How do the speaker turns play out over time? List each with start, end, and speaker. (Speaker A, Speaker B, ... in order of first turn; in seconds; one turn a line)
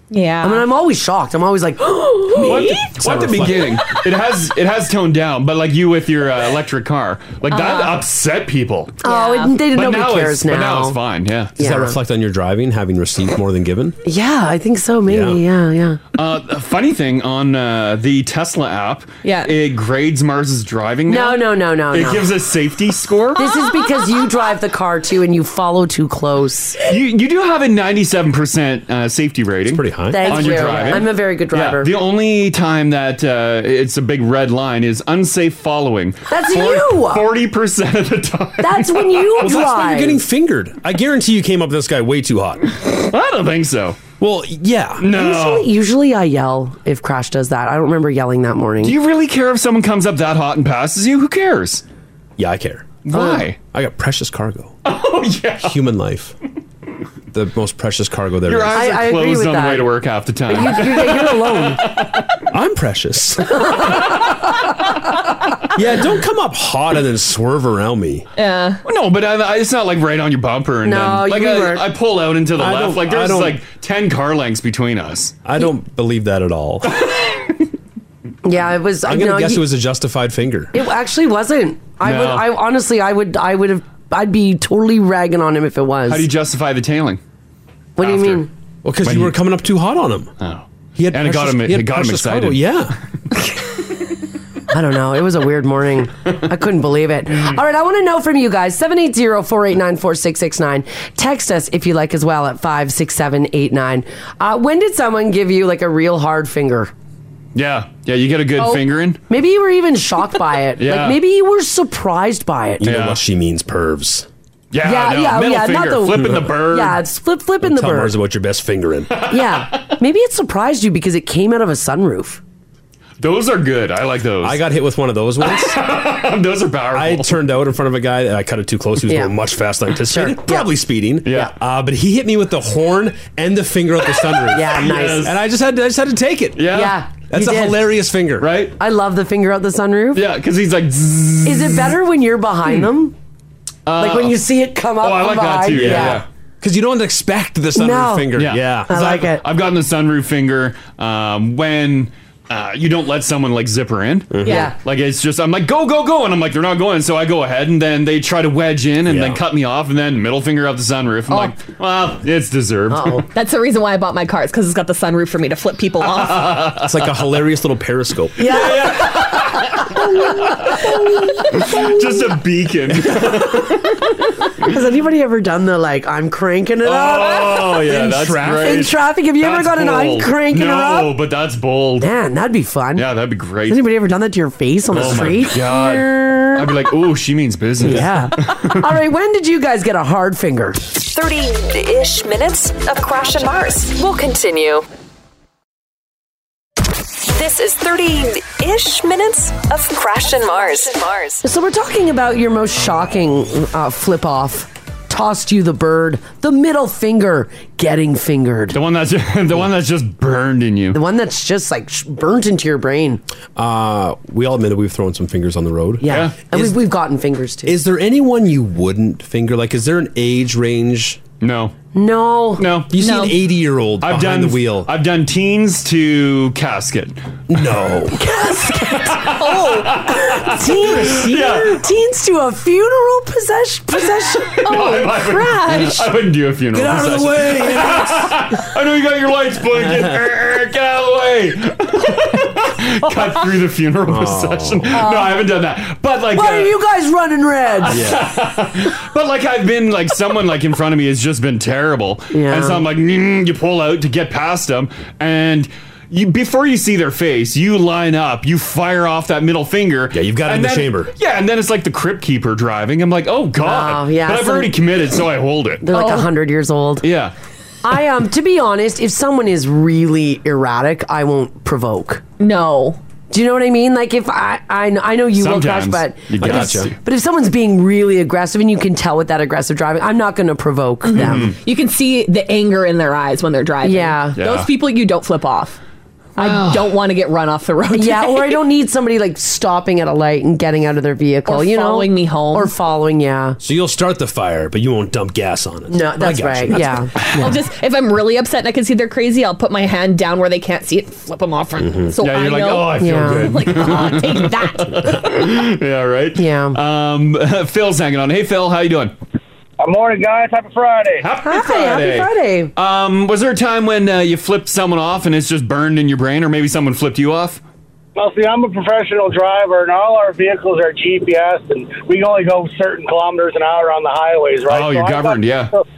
Speaker A: 0.1-0.7
Speaker B: 0.4-2.7
Speaker C: 2.4-9.0
Speaker A: 2.4-2.9
Speaker D: 2.5-3.8
Speaker A: 7.5-8.0
Speaker B: 9.0-11.0
Speaker A: 9.0-9.6
Speaker C: 9.7-11.5
Speaker D: 11.6-13.9
Speaker B: 11.6-12.0
Speaker B: 14.0-16.0
Speaker D: 15.1-15.4
Speaker C: 16.1-23.5
Speaker A: 19.2-19.5
Speaker B: 21.1-22.3
Speaker B: 23.4-26.8
Speaker C: 26.8-39.4
Speaker D: 29.7-30.9
Speaker B: 30.1-31.9
Speaker B: 36.3-37.3
Speaker B: 38.6-40.2
Speaker D: 39.4-42.7
Speaker C: 42.9-44.0
Speaker D: 44.2-45.0
Speaker C: 45.0-45.7
Speaker B: 45.1-49.0
Speaker C: 48.8-51.8
Speaker D: 52.4-53.0
Speaker C: 53.0-53.6
Speaker B: 53.1-53.4
Speaker D: 53.7-54.7
Speaker C: 54.8-55.8
Speaker D: 55.6-56.4
Speaker D: 57.3-58.9
Speaker C: 58.5-62.4
Speaker B: 58.7-59.9
Speaker B: 60.5-61.8
Speaker D: 62.5-63.9
Speaker B: 63.5-64.7
Speaker D: 65.7-68.3
Speaker A: 68.4-68.8
Speaker C: 68.8-75.3
Speaker B: 70.8-71.8
Speaker D: 72.5-73.6
Speaker D: 75.4-77.0
Speaker C: 77.0-77.5
Speaker B: 78.4-79.6
Speaker D: 79.0-80.7
Speaker B: 80.7-86.3
Speaker C: 82.0-82.5
Speaker C: 86.1-87.2
Speaker B: 88.0-88.5
Speaker C: 88.0-88.4
Speaker D: 88.8-90.3
Speaker C: 89.0-89.3
Speaker C: 90.4-92.8
Speaker D: 91.0-93.0
Speaker B: 94.7-106.9
Speaker C: 107.5-109.2
Speaker B: 109.3-112.9
Speaker C: 110.8-111.2
Speaker D: 112.8-114.3
Speaker C: 112.8-113.2
Speaker C: 114.7-117.0
Speaker B: 114.8-118.2
Speaker D: 116.1-116.5
Speaker D: 117.6-119.1
Speaker C: 119.1-120.0
Speaker B: 119.3-122.4
Speaker C: 123.2-124.6
Speaker D: 124.4-125.9
Speaker C: 125.4-127.4
Speaker D: 126.9-136.7
Speaker B: 129.1-129.3
Speaker B: 130.1-130.7
Speaker C: 131.2-131.5
Speaker B: 134.5-135.3
Speaker C: 134.7-135.3
Speaker C: 136.6-137.0
Speaker B: 136.7-137.8
Speaker D: 137.3-138.5
Speaker C: 138.4-138.8
Speaker B: 138.8-140.2
Speaker C: 140.1-142.0
Speaker B: 141.4-143.1
Speaker C: 143.8-144.4
Speaker B: 144.0-146.2
Speaker C: 145.0-146.2
Speaker D: 145.7-148.9
Speaker B: 147.7-148.3
Speaker C: 148.3-163.2
Speaker B: 148.9-149.4
Speaker D: 154.3-154.7
Speaker A: 154.4-154.7
Speaker B: 154.4-154.8
Speaker D: 159.1-159.4
Speaker A: 161.3-161.5
Speaker B: 162.9-163.2
Speaker A: 163.3-166.6
Speaker C: 166.0-167.0
Speaker D: 166.8-168.7
Speaker B: 168.4-172.0
Speaker C: 168.4-170.9
Speaker C: 171.5-174.2
Speaker B: 174.6-181.1
Speaker C: 176.8-182.1
Speaker D: 177.8-178.9
Speaker B: 182.0-183.0
Speaker C: 182.9-183.8
Speaker B: 183.7-186.6
Speaker D: 184.9-185.4
Speaker C: 184.9-188.8
Speaker B: 187.8-190.8
Speaker E: 191.0-194.8
Speaker E: 197.2-201.4
Speaker B: 201.4-208.8
Speaker C: 208.7-211.0
Speaker B: 210.9-213.2
Speaker D: 213.6-216.7
Speaker B: 216.0-217.8
Speaker C: 216.1-216.4
Speaker D: 217.7-221.2
Speaker C: 221.4-221.7
Speaker B: 221.9-222.6
Speaker C: 222.6-222.9
Speaker D: 222.9-224.9
Speaker A: 223.0-223.4
Speaker C: 224.0-227.2
Speaker D: 227.5-228.2
Speaker B: 228.1-229.4
Speaker C: 228.7-231.8
Speaker A: 229.1-230.1
Speaker B: 230.1-234.9
Speaker D: 230.7-231.2
Speaker C: 234.2-246.7
Speaker A: 234.6-236.1
Speaker D: 236.7-238.4
Speaker D: 239.7-240.2
Speaker D: 244.1-244.9
Speaker B: 245.0-245.3
Speaker B: 246.3-248.0
Speaker C: 247.8-265.8
Speaker D: 247.9-248.3
Speaker B: 252.3-252.8
Speaker D: 260.1-261.1
Speaker B: 263.6-264.7
Speaker B: 265.8-267.0
Speaker A: 265.9-266.3
Speaker C: 267.0-267.3
Speaker B: 267.8-272.2
Speaker A: 272.4-273.0
Speaker B: 273.3-281.5
Speaker C: 275.4-276.9
Speaker D: 276.4-276.9
Speaker A: 281.1-285.8
Speaker C: 281.2-281.5
Speaker B: 283.8-284.4
Speaker C: 284.4-284.7
Speaker A: 286.4-288.6
Speaker C: 286.4-286.9
Speaker B: 287.9-293.6
Speaker A: 291.5-292.7
Speaker D: 293.6-297.1
Speaker B: 295.9-297.6
Speaker A: 297.3-305.2
Speaker D: 301.8-302.1
Speaker C: 302.2-309.1
Speaker B: 303.0-303.5
Speaker B: 306.4-306.8
Speaker F: 309.8-311.3
Speaker C: 311.2-317.6
Speaker B: 311.4-312.7
Speaker F: 318.1-325.8
Speaker C: 324.7-325.8